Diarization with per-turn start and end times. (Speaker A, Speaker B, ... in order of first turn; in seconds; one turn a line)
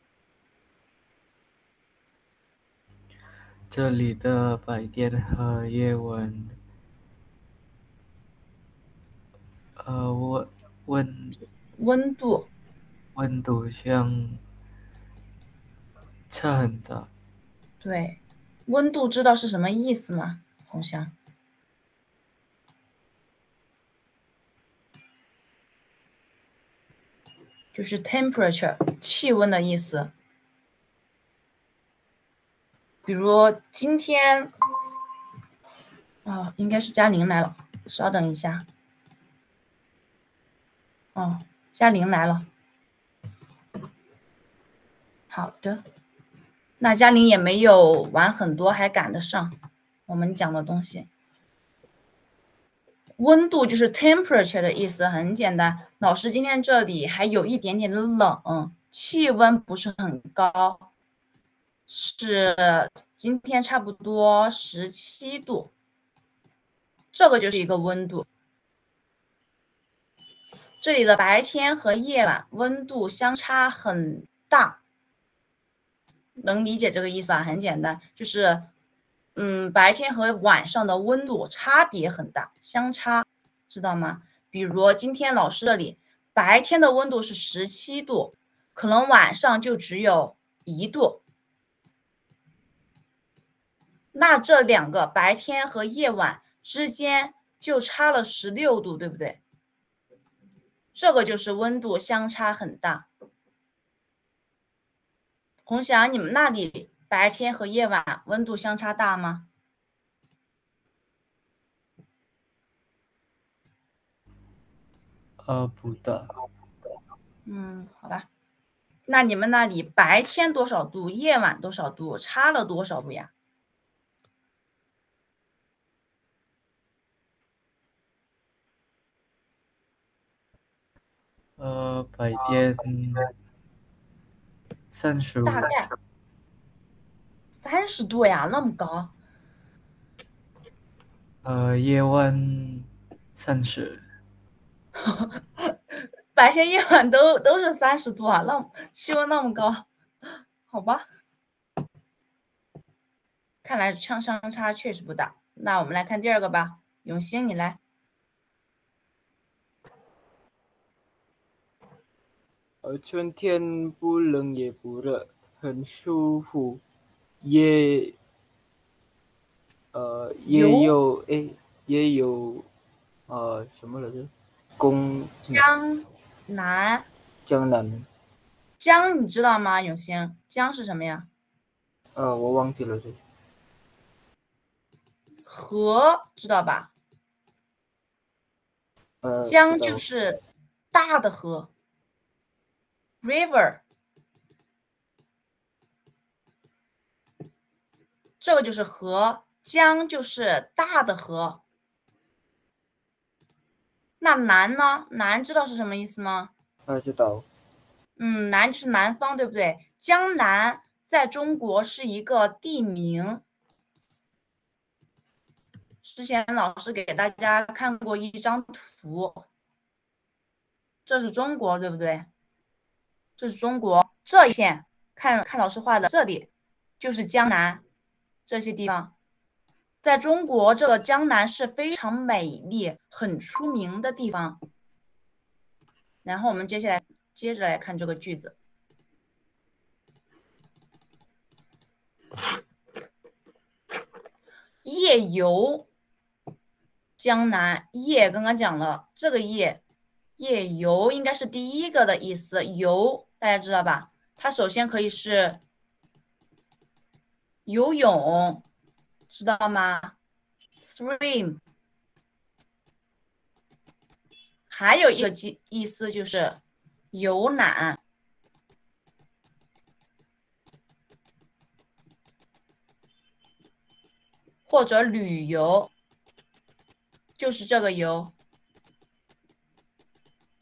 Speaker A: 3.7-6.6
Speaker A: 9.8-11.4
Speaker B: 11.8-12.5
Speaker A: 13.2-14.4
Speaker A: 16.3-17.1
Speaker B: 17.8-21.1
Speaker B: 27.7-30.1
Speaker B: 33.1-34.5
Speaker B: 36.2-38.6
Speaker B: 41.1-42.5
Speaker B: 45.3-45.8
Speaker B: 46.8-49.6
Speaker B: 50.1-51.1
Speaker B: 53.2-60.9
Speaker B: 61.9-65.7
Speaker B: 67.1-68.3
Speaker B: 70.8-74.8
Speaker B: 76.4-78.7
Speaker B: 79.4-91.2
Speaker B: 94.1-99.4
Speaker B: 101.0-103.1
Speaker B: 105.7-109.5
Speaker A: 115.4-116.3
Speaker B: 117.5-118.3
Speaker B: 119.1-123.3
Speaker A: 131.6-133.3
Speaker A: 134.9-135.7
Speaker B: 135.5-135.9
Speaker B: 137.6-139.1
Speaker A: 141.4-144.0
Speaker B: 145.1-145.8
Speaker B: 146.3-149.9
Speaker B: 150.7-151.0
Speaker B: 153.6-157.8
Speaker C: 162.8-166.8
Speaker C: 167.4-168.2
Speaker C: 169.9-172.7
Speaker B: 170.5-170.9
Speaker C: 173.3-175.7
Speaker B: 175.5-177.1
Speaker C: 177.5-178.1
Speaker B: 178.8-181.3
Speaker C: 182.2-183.2
Speaker B: 185.5-186.9
Speaker C: 189.2-190.0
Speaker B: 189.5-190.4
Speaker B: 190.9-191.7
Speaker B: 193.2-193.8
Speaker B: 198.4-201.6
Speaker B: 204.2-206.5
Speaker C: 206.9-207.5
Speaker B: 208.2-213.4
Speaker B: 216.0-219.4
Speaker B: 221.1-222.3
Speaker B: 223.4-226.5
Speaker B: 227.0-227.8
Speaker B: 228.5-229.1
Speaker B: 230.0-234.6
Speaker B: 236.2-238.6
Speaker B: 244.8-245.9
Speaker B: 247.2-249.8
Speaker B: 250.4-255.6
Speaker B: 257.7-258.6
Speaker B: 259.3-260.1
Speaker B: 260.8-261.6
Speaker B: 264.7-266.6
Speaker B: 267.1-268.0
Speaker B: 274.7-275.9
Speaker B: 277.4-278.3